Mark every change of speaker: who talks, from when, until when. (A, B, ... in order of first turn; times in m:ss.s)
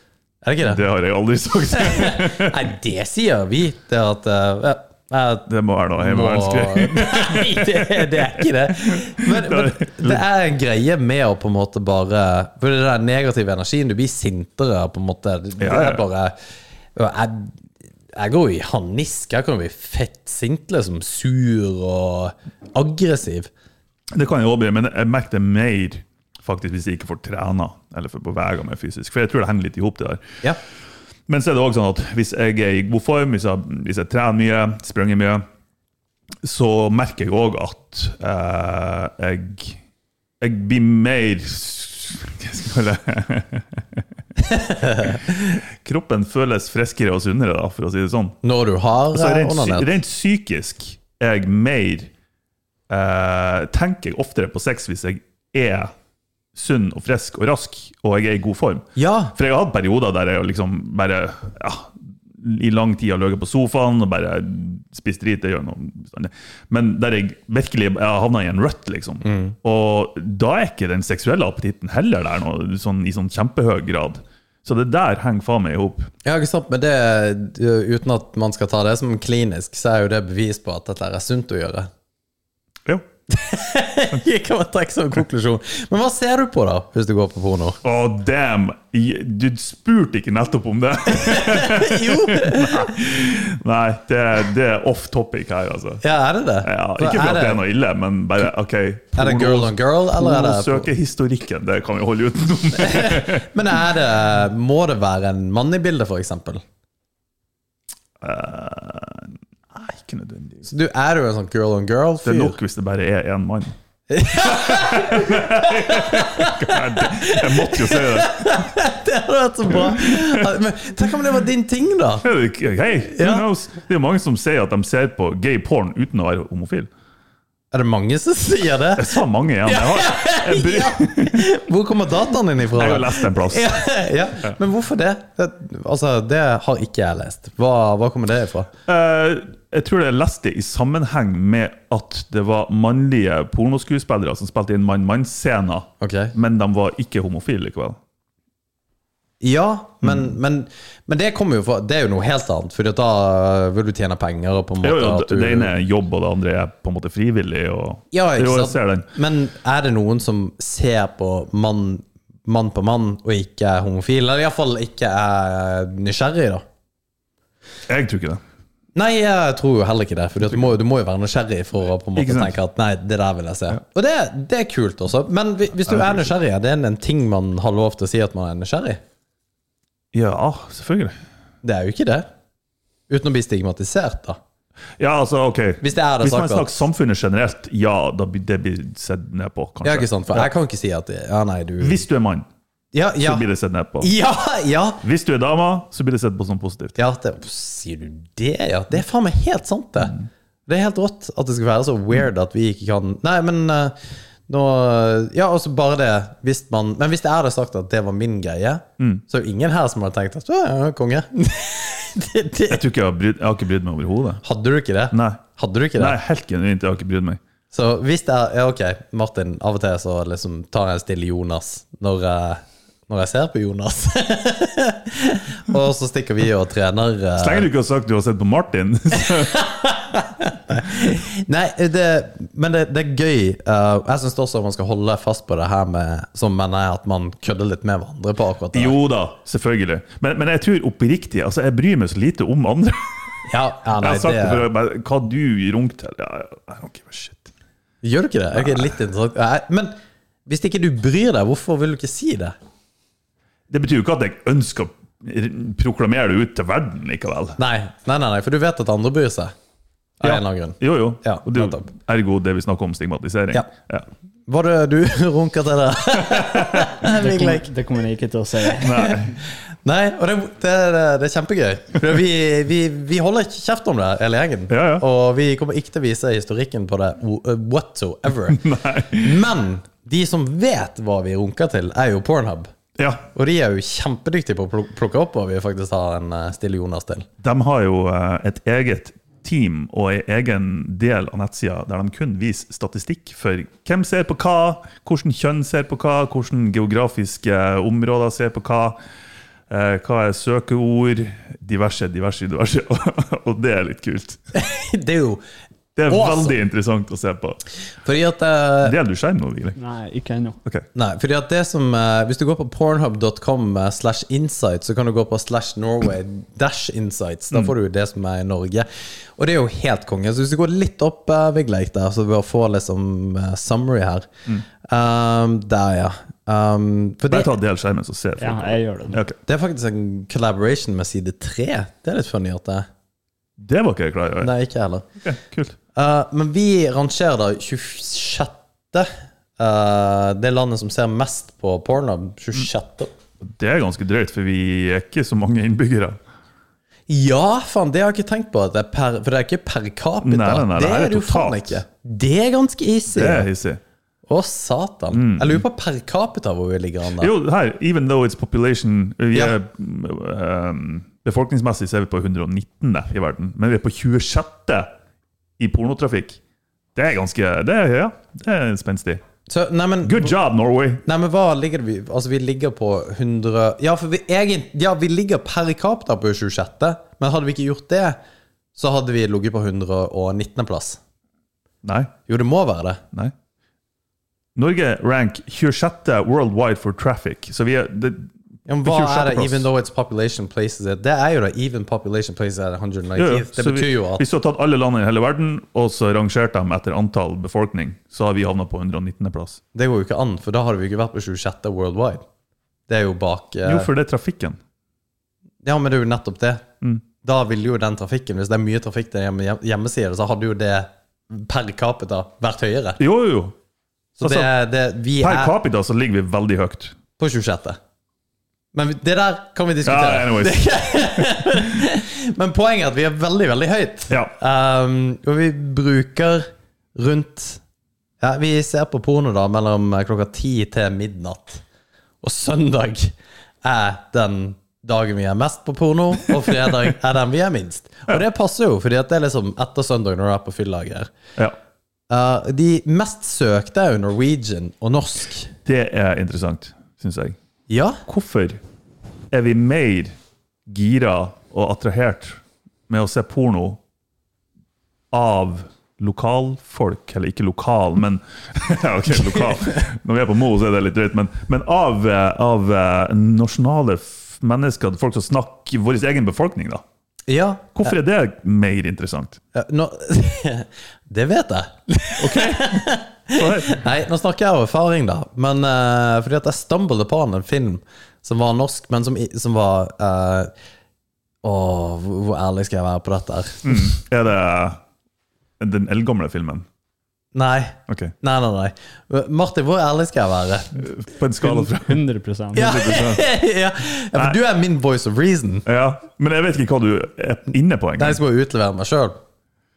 0:00.4-0:00.8 A
0:00.6-0:02.7 B
0:01.7-0:16.3 A
0:05.5-0:10.2 B
0:15.6-0:16.0 B
0:16.9-0:17.5 A
0:18.1-0:23.5 A
0:24.1-0:30.4 B
0:31.3-0:35.4 B
0:36.4-0:39.8 B
0:40.4-0:44.0 B
0:44.5-0:45.3 A
0:45.0-0:48.4 B
0:48.4-0:50.0 A
0:49.1-0:52.1 B
0:52.9-0:55.9 B
0:56.5-1:16.1 B
0:59.0-0:59.3 A
1:09.2-1:09.6 A
1:16.2-1:21.9 A
1:23.3-1:27.8 A
1:27.8-1:36.0 B
1:31.1-1:33.0 A
1:36.0-1:37.6 A
1:36.6-1:43.5 B
1:39.1-1:40.9 A
1:42.8-1:46.6 A
1:48.2-1:50.7 B
1:50.6-1:52.6 A
1:52.2-1:53.7 B
1:54.1-2:02.2 A
1:54.4-1:58.7 B
1:59.8-2:00.5 B
2:02.2-2:06.9 B
2:03.1-2:03.4 A
2:07.7-2:18.7 A
2:09.0-2:11.5 B
2:12.7-2:13.7 B
2:18.9-2:28.0 B
2:26.0-2:26.3 A
2:29.4-2:35.7 A
2:30.0-2:30.3 B
2:34.8-2:39.1 B
2:38.1-2:46.6 A
2:47.9-2:48.4 B
2:48.9-2:59.0 A
2:52.2-2:52.5 B
2:55.9-2:56.3 B
3:00.1-3:01.1 B
3:01.6-3:02.3 A
3:03.1-3:04.4 A
3:05.0-3:10.5 B
3:05.8-3:06.8 A
3:09.8-3:12.0 A
3:11.8-3:12.5 B
3:12.9-3:13.4 A
3:13.2-3:14.1 B
3:14.0-3:15.0 A
3:15.0-3:17.0 B
3:17.0-3:20.2 A
3:20.7-3:24.0 A
3:24.5-3:32.8 A
3:32.7-3:34.4 B
3:34.4-3:36.2 A
3:35.1-3:35.4 B
3:36.0-3:37.4 B
3:37.7-3:47.7 A
3:47.4-3:49.6 B
3:49.1-3:59.0 A
3:58.7-4:03.2 B
4:03.5-4:04.6 A
4:04.0-4:07.5 B
4:08.0-4:09.9 A
4:10.4-4:12.5 A
4:13.7-4:17.6 B
4:17.6-4:19.5 A
4:20.2-4:21.9 A
4:20.2-4:24.0 B
4:24.5-4:27.7 A
4:26.2-4:26.9 B
4:27.0-4:29.1 C
4:28.8-4:29.3 B
4:28.8-4:38.6 A
4:34.7-4:35.0 B
4:38.5-4:39.4 B
4:39.2-4:42.7 A
4:43.0-4:43.2 B
4:43.3-4:47.3 A
4:47.4-4:59.0 B
4:59.7-5:04.4 B
5:04.5-5:05.4 A
5:06.0-5:07.6 B
5:06.1-5:06.6 A
5:08.0-5:09.0 A
5:08.8-5:09.8 B
5:09.8-5:10.6 C
5:10.9-5:24.3 A
5:24.8-5:27.5 A
5:27.3-5:29.4 B
5:28.4-5:29.2 C
5:29.4-5:32.9 A
5:33.6-5:34.5 B
5:34.4-5:35.1 A
5:35.2-5:35.8 B
5:35.9-5:43.1 A
5:43.4-5:46.2 B
5:47.1-5:53.5 A
5:50.2-5:51.8 B
5:53.1-5:53.8 B
5:54.3-5:57.3 A
5:55.1-5:55.6 B
5:57.2-6:04.9 B
6:05.6-6:06.4 B
6:06.9-6:09.2 B
6:09.5-6:10.3 A
6:10.0-6:11.0 B
6:11.0-6:18.2 A
6:18.7-6:21.0 A
6:21.8-6:22.1 B
6:22.3-6:23.0 A
6:24.6-6:28.3 B
6:28.7-6:34.2 A
6:28.8-6:29.7 B
6:33.2-6:39.6 B
6:39.7-6:42.2 A
6:42.9-6:43.9 A
6:43.6-6:44.6 B
6:45.6-6:46.7 A
6:47.2-6:53.0 A
6:53.0-6:53.5 B
6:54.2-6:55.5 A
6:54.2-6:54.5 B
6:55.2-6:57.0 B
6:57.2-6:57.8 A
6:58.7-7:07.6 A
6:59.8-7:01.4 B
7:08.2-7:11.6 A
7:12.2-7:21.1 A
7:22.1-7:25.5 A
7:25.6-7:27.4 B
7:27.7-7:28.0 A
7:28.0-7:28.6 B
7:29.3-7:30.1 B
7:30.7-7:33.8 B
7:35.1-7:46.8 B
7:39.1-7:39.8 A
7:47.3-7:47.9 A
7:47.8-7:49.4 B
7:49.5-8:00.5 A
7:52.2-7:53.8 B
8:01.4-8:03.9 A
8:03.6-8:04.8 B
8:05.6-8:06.6 B
8:07.3-8:10.8 A
8:07.9-8:08.1 B
8:10.8-8:12.0 B
8:11.4-8:12.9 C
8:12.5-8:13.3 B
8:12.5-8:15.6 A
8:15.6-8:18.2 B
8:18.0-8:19.2 A